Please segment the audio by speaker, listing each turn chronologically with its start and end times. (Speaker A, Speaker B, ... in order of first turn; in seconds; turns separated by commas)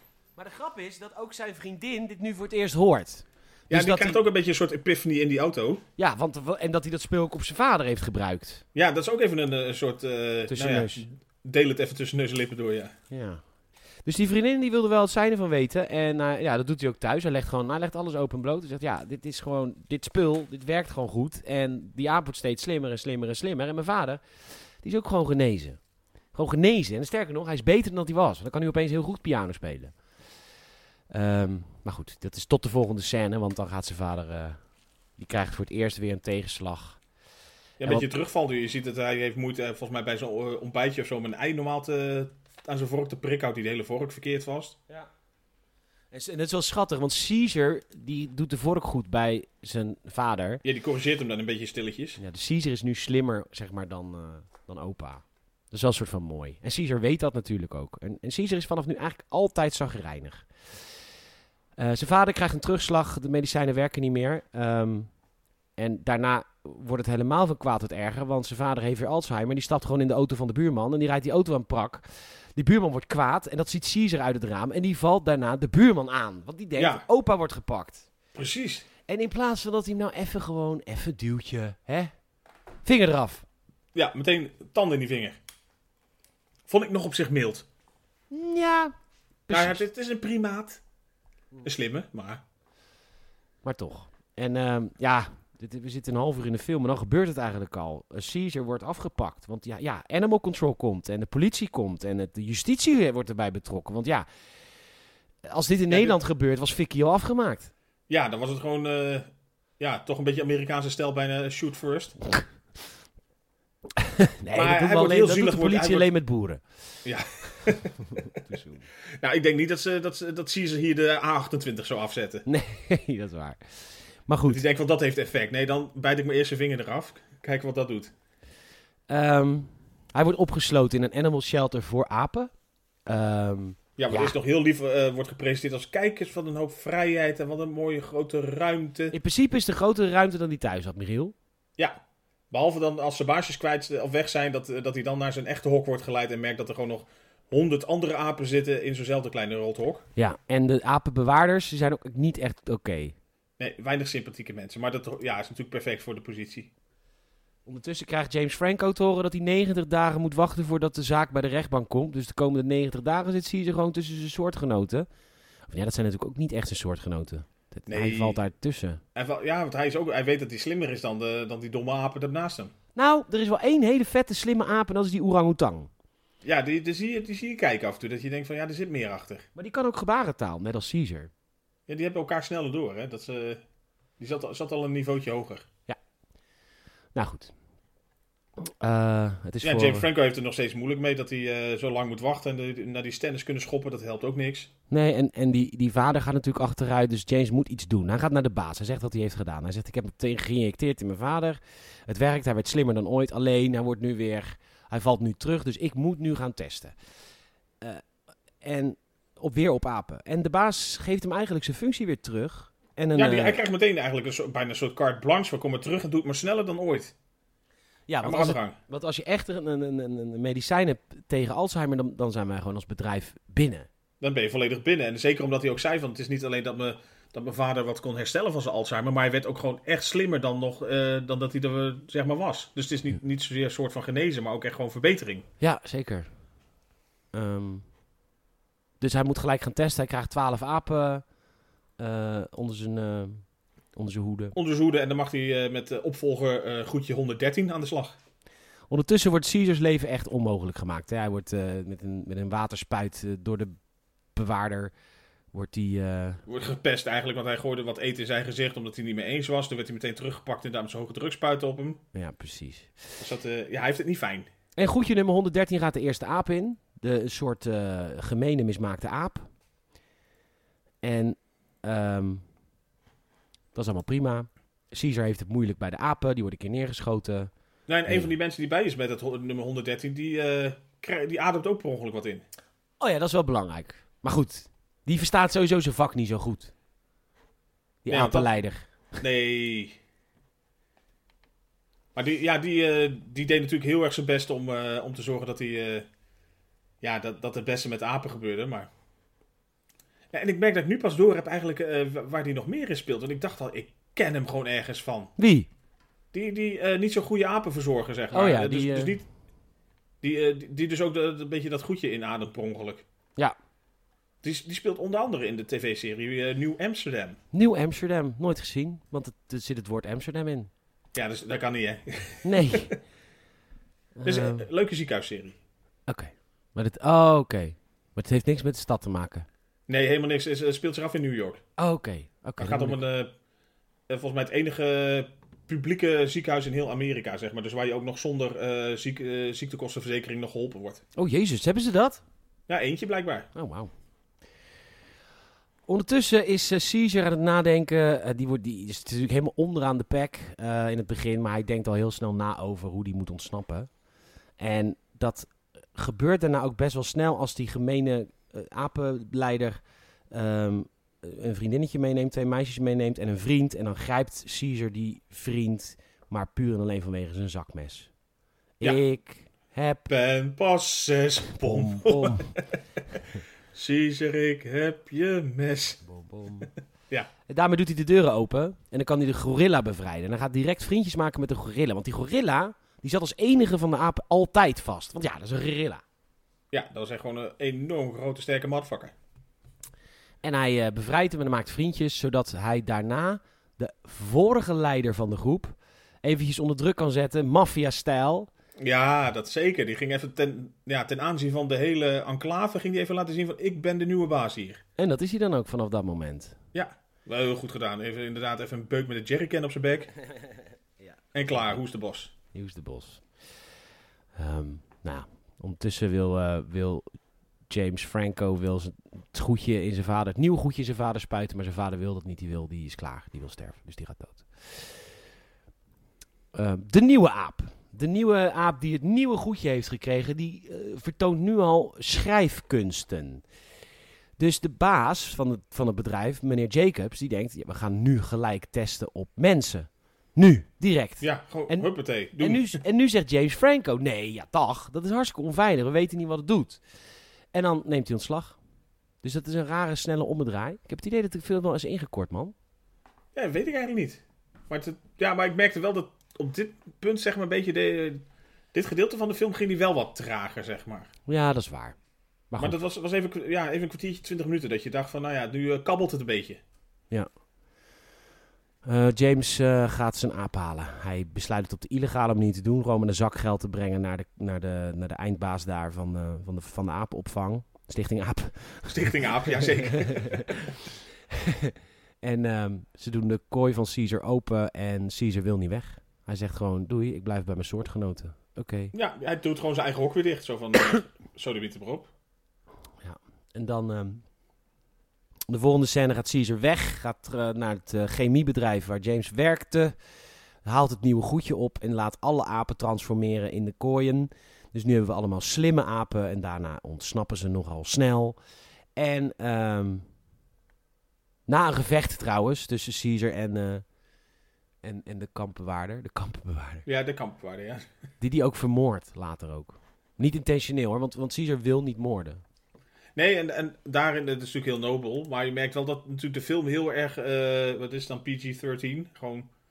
Speaker A: 0.4-4.2, Speaker B: 3.7-5.8, Speaker A: 6.0-8.6, Speaker B: 8.7-12.9, Speaker A: 10.5-11.0, Speaker A: 13.1-13.4, Speaker A: 14.0-24.2, Speaker A: 24.8-25.8, Speaker A: 26.3-29.9, Speaker A: 31.1-34.6, Speaker A: 35.2-37.0, Speaker B: 37.8-44.8, Speaker A: 46.1-50.6, Speaker B: 50.6-52.2, Speaker A: 52.2-60.5, Speaker A: 61.8-65.1, Speaker A: 65.8-78.1, Speaker B: 76.8-77.0, Speaker B: 78.3-78.8, Speaker A: 79.1-82.1, Speaker A: 82.8-83.4, Speaker B: 83.9-85.4, Speaker B: 86.7-87.7, Speaker A: 88.3-88.9, Speaker A: 89.5-89.8, Speaker B: 89.5-90.8, Speaker B: 91.6-92.4, Speaker A: 93.6-104.2, Speaker A: 105.5-107.7, Speaker B: 105.9-106.1, Speaker B: 108.1-109.3, Speaker B: 109.8-112.2, Speaker A: 114.0-116.6, Speaker B: 114.5-116.1, Speaker B: 117.0-117.9, Speaker A: 118.0-118.9, Speaker B: 119.0-122.4, Speaker A: 122.5-124.6, Speaker B: 124.5-128.1, Speaker A: 129.1-132.5, Speaker A: 133.1-134.3, Speaker B: 134.0-139.1, Speaker A: 139.1-141.3, Speaker B: 142.5-150.0, Speaker A: 150.2-153.1, Speaker B: 153.6-156.7, Speaker A: 157.7-165.1, Speaker A: 165.7-169.0, Speaker B: 167.9-168.4, Speaker B: 169.1-172.7, Speaker A: 172.9-175.9, Speaker B: 176.4-179.5, Speaker A: 179.5-181.3, Speaker B: 181.9-183.6, Speaker B: 184.2-185.7, Speaker A: 187.1-187.5, Speaker A: 188.6-190.1, Speaker B: 189.6-194.7, Speaker A: 194.9-206.9, Speaker A: 208.6-213.6, Speaker B: 213.2-217.1, Speaker A: 218.1-223.9, Speaker B: 218.2-218.8, Speaker B: 224.2-235.4, Speaker A: 235.6-236.3, Speaker A: 237.3-237.8, Speaker A: 239.0-241.2, Speaker A: 242.0-243.4, Speaker A: 243.9-244.6, Speaker B: 244.5-248.2, Speaker A: 248.9-253.8, Speaker A: 254.3-254.9, Speaker A: 255.5-256.4, Speaker B: 256.5-262.0, Speaker A: 262.1-263.0, Speaker B: 263.2-264.5, Speaker A: 264.8-269.5, Speaker A: 271.0-272.4, Speaker A: 273.7-277.5, Speaker B: 277.9-282.4, Speaker A: 283.0-286.7, Speaker A: 288.0-289.2, Speaker B: 288.1-288.5, Speaker B: 289.2-289.9, Speaker B: 292.1-296.1, Speaker B: 297.0-298.9, Speaker B: 300.3-305.3, Speaker A: 305.4-305.7, Speaker B: 306.3-309.2, Speaker A: 308.3-309.1, Speaker B: 310.2-313.0, Speaker B: 314.4-317.4, Speaker A: 317.5-320.7, Speaker B: 321.1-322.9, Speaker A: 322.4-322.9, Speaker A: 324.2-324.7, Speaker B: 324.2-325.6, Speaker A: 326.1-329.4, Speaker B: 329.9-331.6, Speaker A: 331.8-333.0, Speaker B: 332.6-333.3, Speaker B: 334.1-341.0, Speaker A: 341.1-342.2, Speaker B: 342.7-343.5, Speaker A: 343.5-343.9, Speaker A: 345.9-353.9, Speaker A: 354.6-359.8, Speaker A: 360.3-368.1, Speaker A: 368.8-370.1, Speaker B: 370.1-376.0, Speaker A: 371.6-372.5, Speaker A: 376.0-376.7, Speaker A: 377.5-386.0, Speaker B: 386.7-389.1, Speaker A: 390.4-398.5, Speaker B: 398.8-404.8, Speaker A: 405.0-406.6, Speaker B: 406.7-410.1, Speaker B: 411.3-412.3, Speaker A: 412.5-413.2, Speaker A: 414.4-417.1, Speaker A: 417.7-425.0, Speaker A: 426.5-433.4, Speaker A: 434.4-446.8, Speaker B: 441.2-442.8, Speaker A: 447.5-448.6, Speaker A: 449.2-452.5, Speaker B: 453.3-461.1, Speaker A: 461.3-461.9, Speaker A: 462.5-462.8, Speaker B: 462.6-466.6, Speaker A: 468.8-480.7, Speaker B: 478.9-480.5, Speaker A: 481.3-488.9, Speaker B: 488.9-492.1, Speaker A: 493.0-494.2, Speaker A: 495.5-499.9, Speaker A: 500.6-508.4, Speaker A: 508.9-510.1, Speaker A: 511.5-513.8, Speaker A: 514.8-516.9, Speaker B: 516.9-517.9, Speaker A: 518.2-522.4, Speaker B: 523.1-529.5